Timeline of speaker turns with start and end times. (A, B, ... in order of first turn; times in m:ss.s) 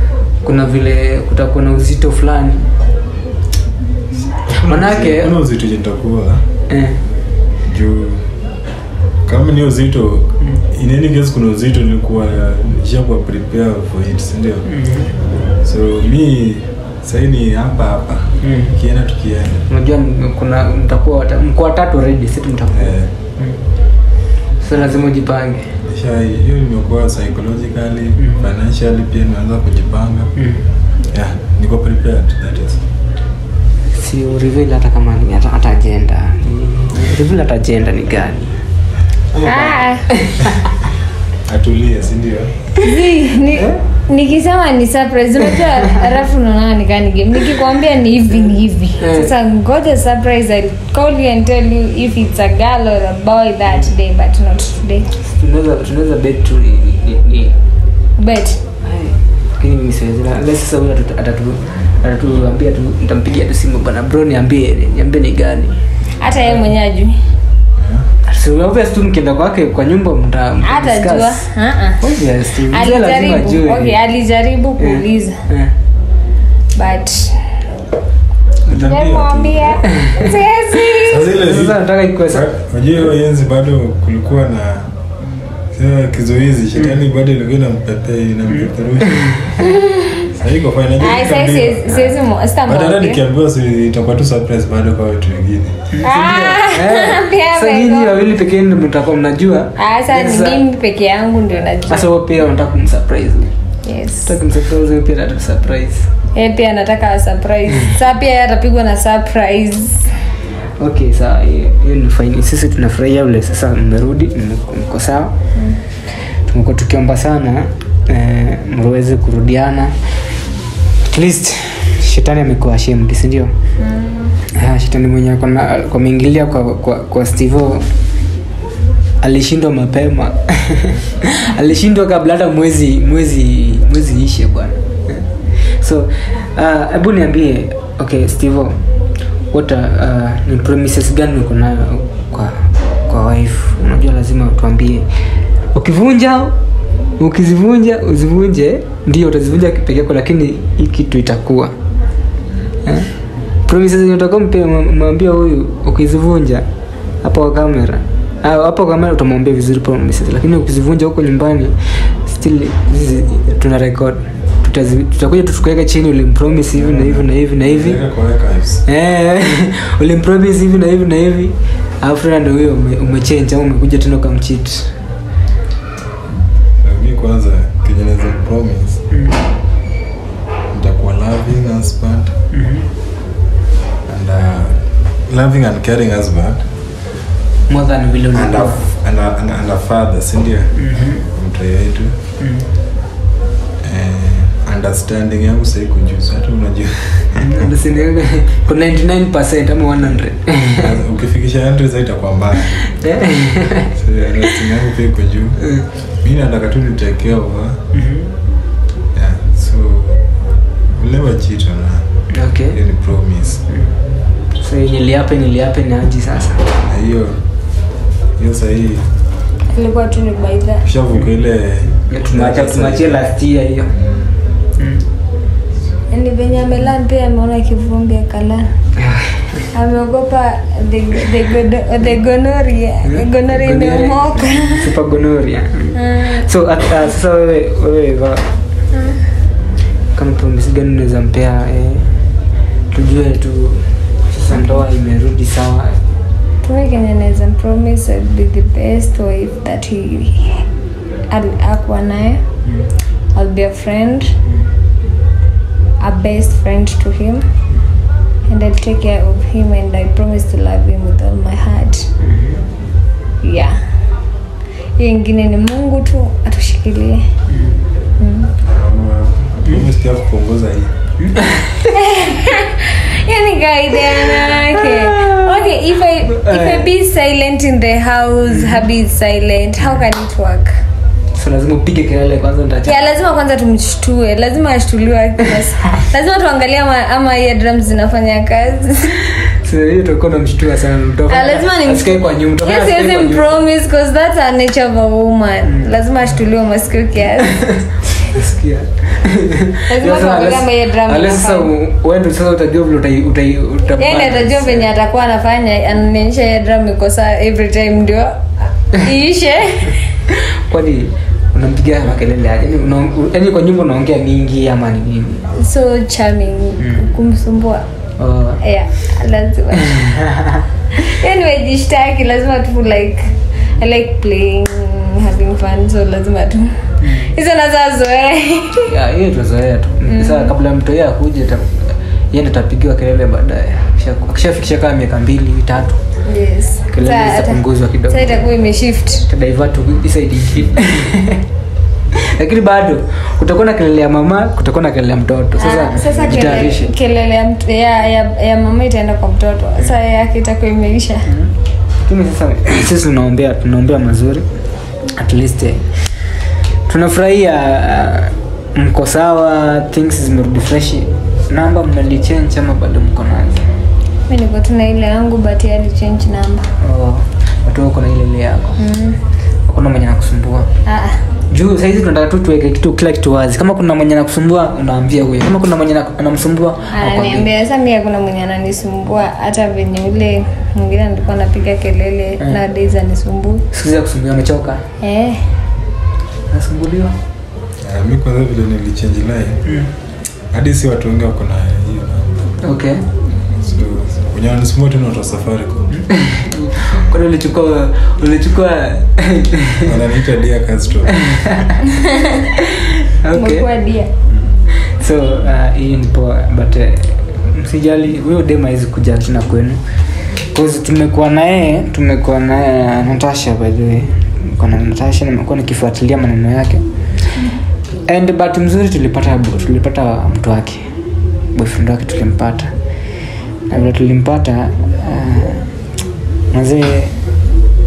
0:00.4-0:02.7 A
0:04.4-0:06.4 B
0:04.6-0:05.3 A
0:06.7-0:07.0 A
0:07.6-0:08.3 B
0:09.2-0:14.6 B
0:14.7-0:15.1 A
0:15.6-0:19.7 B
0:18.4-0:18.7 A
0:19.7-0:23.6 A
0:22.7-0:23.1 B
0:24.6-0:25.7 A
0:25.8-0:30.3 B
0:28.2-0:28.4 A
0:30.4-0:30.6 A
0:31.1-0:32.8 B
0:33.9-0:38.6 A
0:39.4-0:40.1 C
0:39.4-0:40.5 A
0:41.4-0:42.6 B
0:42.8-0:55.1 C
0:49.0-0:49.3 A
0:55.3-0:57.5 A
0:58.2-0:58.6 C
0:58.8-1:05.8 A
1:06.2-1:07.1 C
1:06.4-1:06.7 A
1:07.8-1:08.1 B
1:08.2-1:11.5 A
1:10.6-1:12.0 C
1:12.0-1:14.0 A
1:12.6-1:15.4 C
1:14.8-1:15.7 A
1:16.7-1:17.6 C
1:18.7-1:19.8 B
1:18.7-1:21.3 C
1:19.8-1:20.3 A
1:20.9-1:24.9 B
1:21.3-1:22.5 A
1:25.7-1:29.5 B
1:29.2-1:29.5 A
1:29.7-1:30.2 C
1:30.3-1:32.0 B
1:31.0-1:33.2 C
1:32.6-1:35.9 B
1:35.9-1:40.6 A
1:36.0-1:38.1 C
1:39.8-1:42.1 C
1:41.9-1:43.5 A
1:43.8-1:44.3 C
1:44.2-1:46.1 A
1:46.3-1:50.0 C
1:50.8-1:55.3 A
1:55.5-1:55.8 C
1:56.5-1:59.9 A
2:01.0-2:03.5 A
2:03.8-2:04.4 C
2:04.5-2:07.9 A
2:09.2-2:15.2 A
2:15.8-2:18.8 A
2:19.5-2:25.1 A
2:25.7-2:26.5 A
2:27.2-2:31.7 A
2:32.8-2:33.1 A
2:33.7-2:36.6 A
2:37.2-2:48.0 A
2:46.8-2:48.8 B
2:48.8-2:54.9 A
2:56.8-2:59.0 B
2:59.1-2:59.4 A
3:00.7-3:02.3 B
3:02.5-3:02.9 A
3:04.1-3:06.7 B
3:07.7-3:08.8 A
3:08.3-3:10.7 B
3:10.7-3:11.3 A
3:11.3-3:12.1 B
3:12.4-3:12.7 A
3:13.8-3:17.7 B
3:17.4-3:20.9 A
3:20.7-3:22.8 B
3:22.9-3:23.9 A
3:24.0-3:25.6 B
3:26.2-3:27.8 B
3:27.9-3:28.3 A
3:29.1-3:30.3 B
3:30.9-3:32.1 B
3:32.3-3:32.8 A
3:32.7-3:33.6 B
3:33.7-3:33.9 A
3:34.6-3:36.7 A
3:36.9-3:37.4 B
3:38.4-3:39.1 B
3:39.7-3:40.9 C
3:40.8-3:43.2 B
3:42.0-3:43.9 A
3:43.9-3:44.3 B
3:44.8-3:45.0 A
3:46.1-3:48.7 C
3:49.0-3:49.6 A
3:49.7-3:54.9 C
3:53.0-3:58.5 A
3:55.9-3:56.4 C
3:58.9-3:59.2 C
4:00.1-4:02.1 A
4:02.9-4:06.0 A
4:06.6-4:10.6 C
4:11.3-4:12.4 C
4:13.3-4:14.3 C
4:16.0-4:17.4 C
4:18.5-4:22.1 C
4:22.2-4:22.6 A
4:23.4-4:23.8 C
4:25.0-4:27.2 C
4:27.5-4:27.8 A
4:28.2-4:28.5 C
4:28.6-4:30.9 B
4:31.2-4:31.9 A
4:31.9-4:40.7 C
4:34.7-4:35.7 A
4:36.3-4:36.9 A
4:41.3-4:43.0 A
4:42.8-4:49.2 C
4:49.6-4:53.6 A
4:51.3-4:57.7 C
4:58.2-5:04.9 A
4:59.9-5:01.7 C
5:04.0-5:10.0 C
5:10.7-5:15.5 A
5:15.5-5:17.8 C
5:16.8-5:17.1 A
5:18.2-5:18.6 A
5:18.6-5:20.2 C
5:20.0-5:20.5 A
5:21.0-5:28.9 C
5:27.0-5:27.3 A
5:28.9-5:36.0 A
5:30.0-5:30.5 C
5:36.2-5:39.2 C
5:36.9-5:38.4 A
5:39.3-5:41.4 A
5:42.2-5:46.9 A
5:45.6-5:51.3 C
5:46.0-5:46.4 B
5:51.3-5:51.5 A
5:52.0-5:54.4 A
5:55.1-5:56.2 A
5:56.9-6:03.7 A
6:04.3-6:06.7 C
6:06.8-6:08.8 A
6:08.8-6:09.2 C
6:09.6-6:10.7 A
6:10.8-6:11.3 C
6:11.5-6:17.5 A
6:16.9-6:23.6 C
6:23.7-6:24.8 A
6:25.0-6:25.5 C
6:26.5-6:27.1 A
6:27.8-6:29.6 B
6:29.6-6:29.9 A
6:30.5-6:32.3 B
6:32.6-6:33.0 A
6:33.3-6:35.9 B
6:35.9-6:39.9 A
6:39.8-6:41.2 B
6:43.2-6:43.7 A
6:43.3-6:44.1 C
6:44.3-6:44.5 B
6:44.8-6:49.8 A
6:50.5-6:56.8 A
6:58.1-7:00.9 A
7:01.5-7:02.7 A
7:03.7-7:05.6 A
7:06.5-7:07.1 A